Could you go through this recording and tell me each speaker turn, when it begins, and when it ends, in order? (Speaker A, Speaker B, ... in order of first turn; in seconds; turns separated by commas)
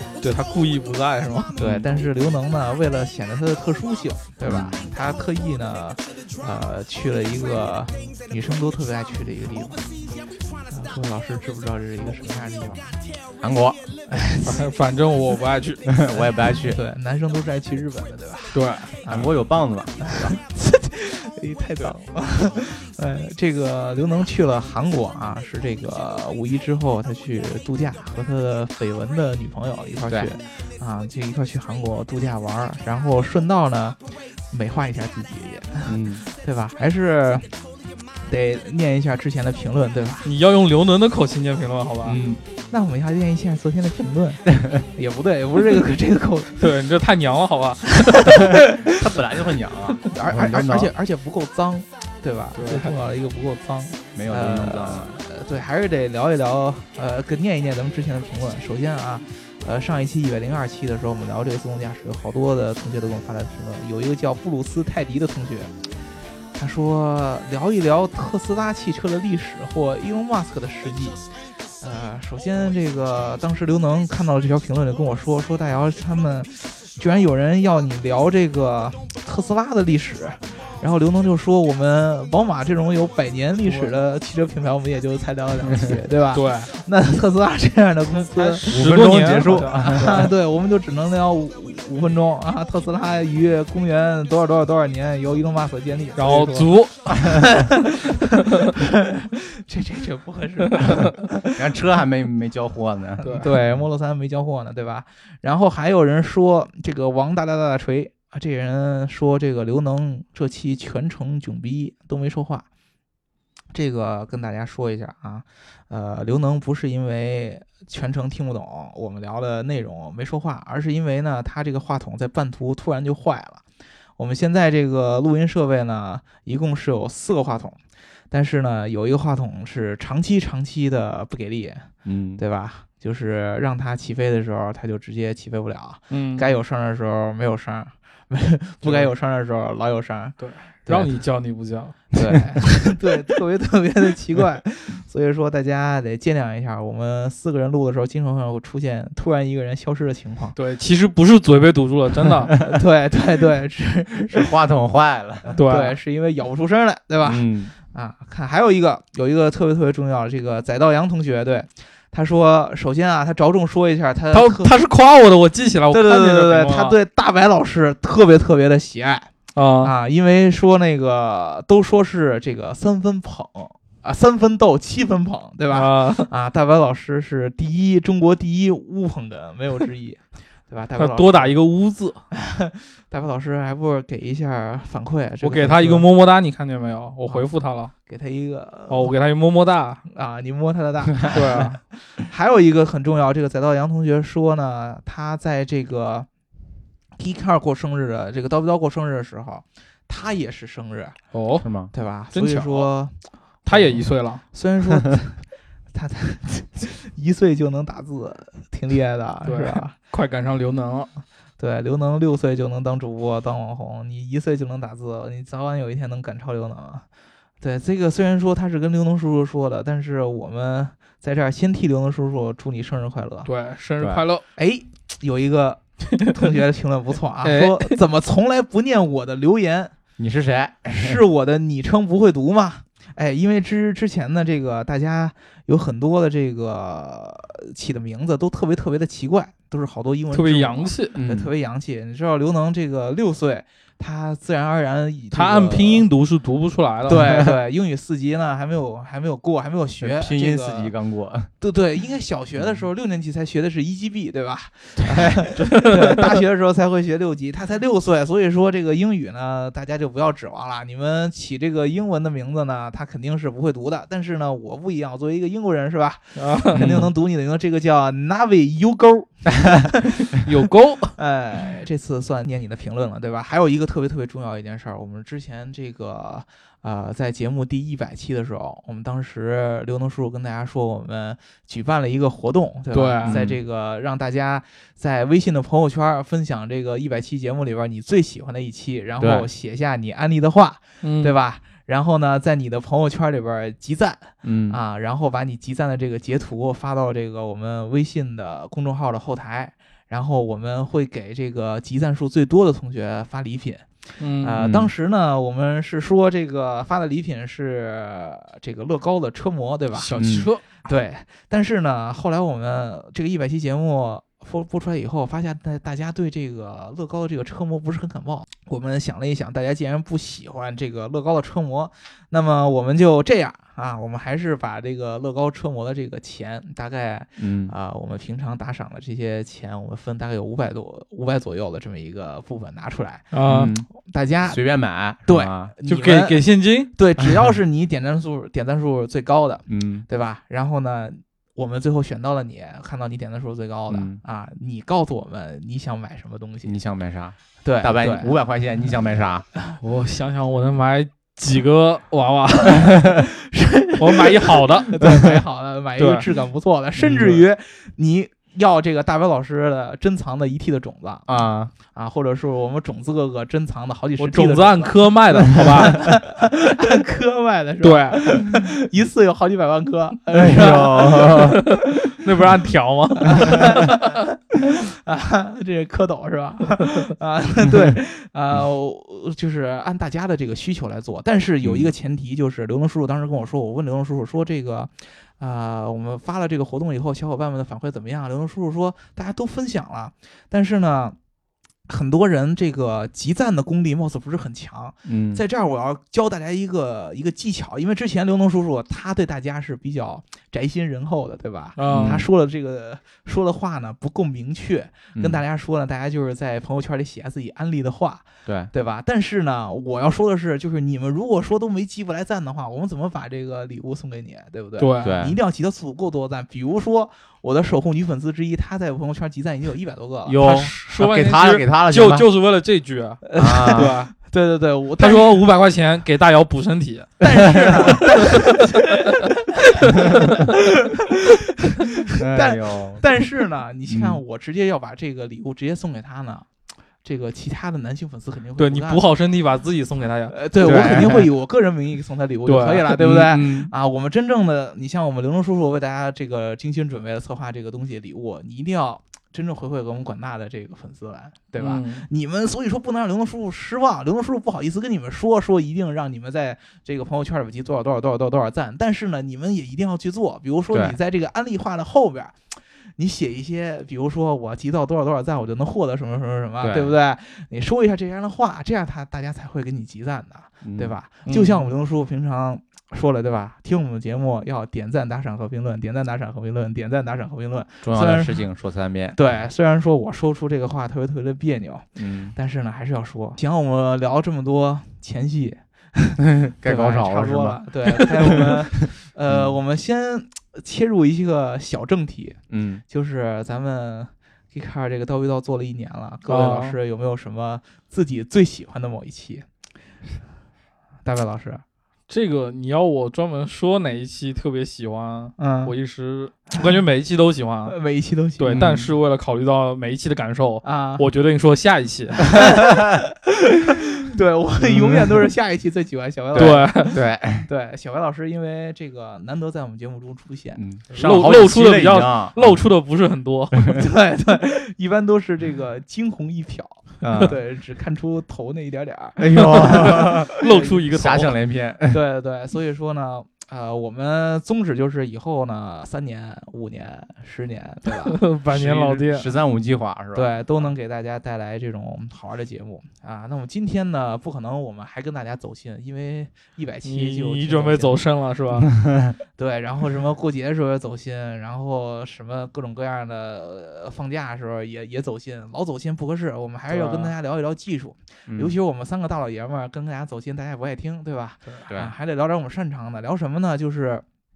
Speaker A: 0.2-1.6, Speaker B: 1.5-12.9, Speaker C: 1.6-1.9, Speaker C: 4.4-4.8, Speaker C: 13.4-13.9, Speaker B: 14.1-14.6, Speaker A: 14.4-15.8, Speaker C: 15.8-16.8, Speaker B: 16.1-19.4, Speaker A: 18.5-18.9, Speaker C: 19.1-20.4, Speaker B: 20.0-34.0, Speaker B: 34.5-37.6, Speaker C: 35.9-36.2, Speaker B: 38.2-40.3, Speaker A: 40.2-42.2, Speaker C: 42.0-42.4, Speaker B: 42.7-46.7, Speaker C: 44.5-44.8, Speaker A: 46.6-48.6, Speaker B: 48.3-48.9, Speaker C: 48.5-50.9, Speaker B: 50.1-65.7, Speaker A: 52.5-52.9, Speaker C: 54.1-55.1, Speaker B: 66.5-71.2, Speaker B: 71.8-101.6, Speaker A: 86.3-86.7, Speaker A: 88.3-90.3, Speaker C: 88.6-90.2, Speaker A: 96.2-97.2, Speaker C: 101.5-103.6, Speaker A: 103.2-103.5, Speaker B: 103.2-112.7, Speaker B: 113.7-123.6, Speaker B: 124.2-127.8, Speaker B: 128.3-141.1, Speaker C: 132.0-132.4, Speaker A: 136.1-136.5, Speaker A: 138.8-139.1, Speaker A: 140.4-142.0, Speaker B: 142.1-150.6, Speaker A: 150.5-152.5, Speaker B: 152.6-154.5, Speaker C: 154.3-155.5, Speaker B: 155.4-164.8, Speaker A: 155.6-156.0, Speaker C: 157.2-157.7, Speaker A: 164.3-166.9, Speaker B: 165.9-169.3, Speaker A: 169.5-169.9, Speaker B: 169.8-181.6, Speaker A: 175.7-176.3, Speaker A: 181.0-182.2, Speaker B: 182.3-186.1, Speaker A: 185.4-187.9, Speaker B: 188.1-189.1, Speaker A: 188.9-190.0, Speaker B: 190.1-196.3, Speaker A: 191.2-191.8, Speaker B: 197.2-201.2, Speaker A: 201.3-201.7, Speaker C: 201.6-201.9, Speaker B: 201.9-203.1, Speaker A: 202.3-202.9, Speaker A: 203.7-204.4, Speaker B: 203.7-205.4, Speaker B: 205.9-209.9, Speaker A: 209.4-211.1, Speaker B: 211.6-217.0, Speaker B: 217.6-223.5, Speaker A: 223.4-224.4, Speaker C: 224.0-224.2, Speaker B: 224.6-229.9, Speaker A: 227.4-228.0, Speaker C: 230.2-231.2, Speaker B: 230.8-246.1, Speaker A: 240.3-241.2, Speaker C: 241.1-241.5, Speaker A: 245.3-247.3, Speaker B: 247.1-250.9, Speaker C: 247.2-247.5, Speaker C: 250.0-251.5, Speaker B: 251.6-270.4, Speaker C: 252.6-252.9, Speaker C: 255.0-255.4, Speaker A: 255.6-256.4, Speaker A: 266.4-266.9, Speaker C: 266.7-267.1, Speaker A: 270.3-271.2, Speaker B: 271.1-310.2, Speaker A: 282.9-283.4, Speaker C: 283.2-283.6, Speaker C: 289.2-289.5, Speaker A: 291.0-291.3, Speaker C: 294.4-294.8, Speaker A: 304.2-304.6, Speaker C: 304.6-304.9, Speaker A: 309.9-310.8, Speaker C: 310.1-310.5, Speaker B: 310.8-333.3, Speaker C: 327.4-327.7, Speaker A: 333.3-333.7, Speaker C: 333.4-333.9, Speaker B: 333.9-334.6, Speaker C: 334.4-335.7, Speaker B: 335.2-346.8, Speaker A: 335.9-336.9, Speaker C: 339.7-340.1, Speaker C: 343.9-344.2, Speaker C: 346.6-349.5, Speaker B: 347.6-348.3, Speaker A: 349.8-353.1, Speaker B: 353.4-371.5, Speaker A: 354.0-355.0, Speaker A: 356.0-356.2, Speaker C: 357.0-357.4, Speaker C: 361.3-361.7, Speaker A: 364.2-366.1, Speaker A: 367.8-368.5, Speaker C: 370.3-371.6, Speaker A: 370.4-374.1, Speaker B: 373.2-391.1, Speaker C: 381.6-381.9, Speaker B: 391.9-420.4, Speaker C: 395.1-395.4, Speaker A: 401.8-402.2, Speaker C: 401.9-402.2, Speaker C: 405.1-405.4, Speaker A: 414.8-415.2, Speaker C: 415.0-415.4, Speaker C: 420.2-422.3, Speaker A: 420.4-424.1, Speaker B: 423.2-425.4, Speaker C: 423.4-424.0, Speaker A: 425.0-429.1, Speaker B: 427.2-436.5, Speaker C: 427.6-427.9, Speaker A: 429.8-430.3, Speaker C: 432.1-433.0, Speaker C: 433.9-434.2, Speaker B: 437.0-439.1, Speaker A: 438.6-441.1, Speaker B: 440.3-462.4, Speaker C: 440.6-441.3, Speaker A: 442.4-443.0, Speaker C: 443.0-443.7, Speaker A: 451.6-452.1, Speaker C: 460.7-461.0, Speaker B: 463.0-478.5, Speaker C: 466.6-466.9, Speaker C: 470.6-470.9, Speaker A: 471.2-471.6, Speaker C: 477.8-479.2, Speaker B: 479.1-499.4, Speaker C: 481.9-482.3, Speaker C: 486.2-489.5, Speaker C: 492.5-492.8, Speaker A: 496.2-496.8, Speaker B: 501.0-501.6, Speaker A: 502.1-507.8, Speaker B: 505.4-505.7, Speaker B: 507.7-508.7, Speaker A: 508.4-512.3, Speaker C: 508.5-508.9, Speaker B: 510.6-511.1, Speaker B: 512.4-520.6, Speaker C: 514.6-515.3, Speaker C: 516.3-517.5, Speaker A: 516.4-517.0, Speaker C: 520.6-522.6, Speaker A: 521.0-523.7, Speaker B: 523.7-530.8, Speaker C: 527.0-527.3, Speaker C: 529.2-530.3, Speaker A: 529.4-531.4, Speaker C: 530.9-532.0, Speaker B: 531.9-538.2, Speaker A: 537.9-539.3, Speaker C: 538.5-540.3, Speaker B: 540.1-548.0, Speaker A: 546.8-548.7, Speaker C: 548.8-549.1, Speaker B: 549.4-564.0, Speaker A: 556.7-557.1, Speaker C: 558.3-558.5, Speaker C: 561.7-561.9